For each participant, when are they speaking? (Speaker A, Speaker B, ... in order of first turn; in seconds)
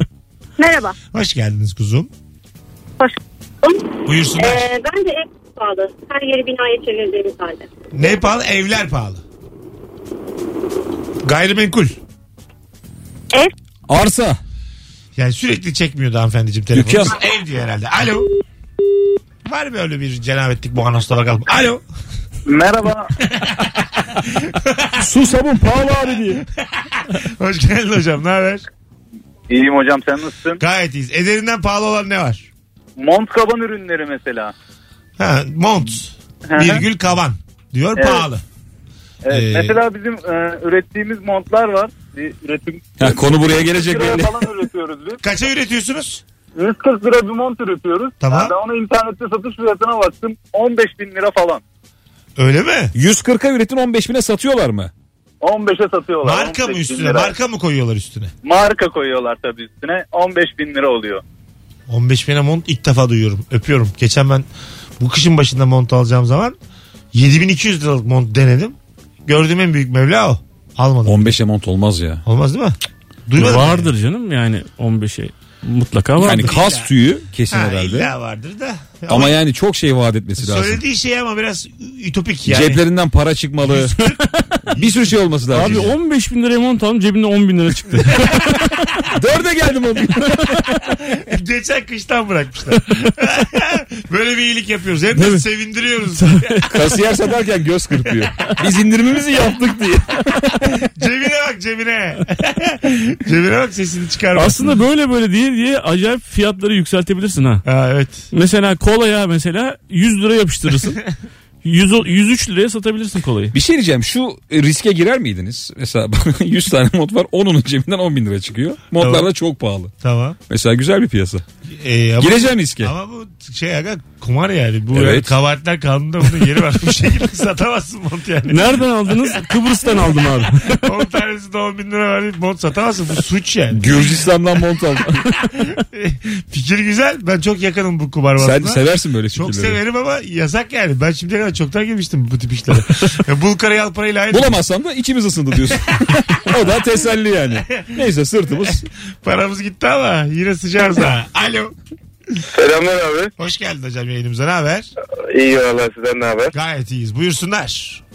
Speaker A: 0.6-1.0, 3.0-7.7
Speaker B: 1.1-2.1, 4.1-4.7, 7.9-9.2, 11.2-12.0, 15.2-18.3, 19.5-21.8, 23.2-24.9, 26.9-28.7, 30.6-32.5, 35.2-38.4, 39.3-39.8, 45.2-46.2, 48.2-48.6, 52.4-52.9, 56.2-58.3, 61.9-64.5, 65.0-66.6, 67.1-71.4, 72.3-72.8, 73.3-73.9, 76.3-76.9, 77.5-79.4, 80.4-82.8, 83.7-85.2, 91.1-96.8, 101.0-104.6, 107.7-108.3, 119.0-119.3, 120.0-120.4, 121.8-134.2, 135.4-138.8, 139.3-144.6, 147.7-148.0, 148.6-151.7, 153.4-154.9, 156.5-158.0
Speaker C: 13.9-14.4, 16.7-17.2, 25.0-26.4, 43.0-44.5, 53.0-54.9, 71.1-72.2, 76.2-78.1, 79.1-80.8, 82.5-84.0, 84.8-85.9, 89.1-90.7, 96.7-100.9, 113.5-119.9, 120.5-121.4, 122.2-122.9, 124.9-125.3, 133.7-135.2, 138.4-139.8, 144.3-148.9
Speaker D: 22.5-23.1, 29.5-30.6, 33.0-34.5, 36.5-36.8, 38.0-38.3, 39.2-45.2, 46.5-51.6, 55.4-57.3, 58.4-61.2
Speaker E: 73.4-76.5, 85.5-88.9, 95.2-95.4, 96.1-96.7, 104.3-107.7, 108.3-111.0, 111.6-113.5, 128.5-130.9
Speaker F: 152.5-153.3, 155.3-156.5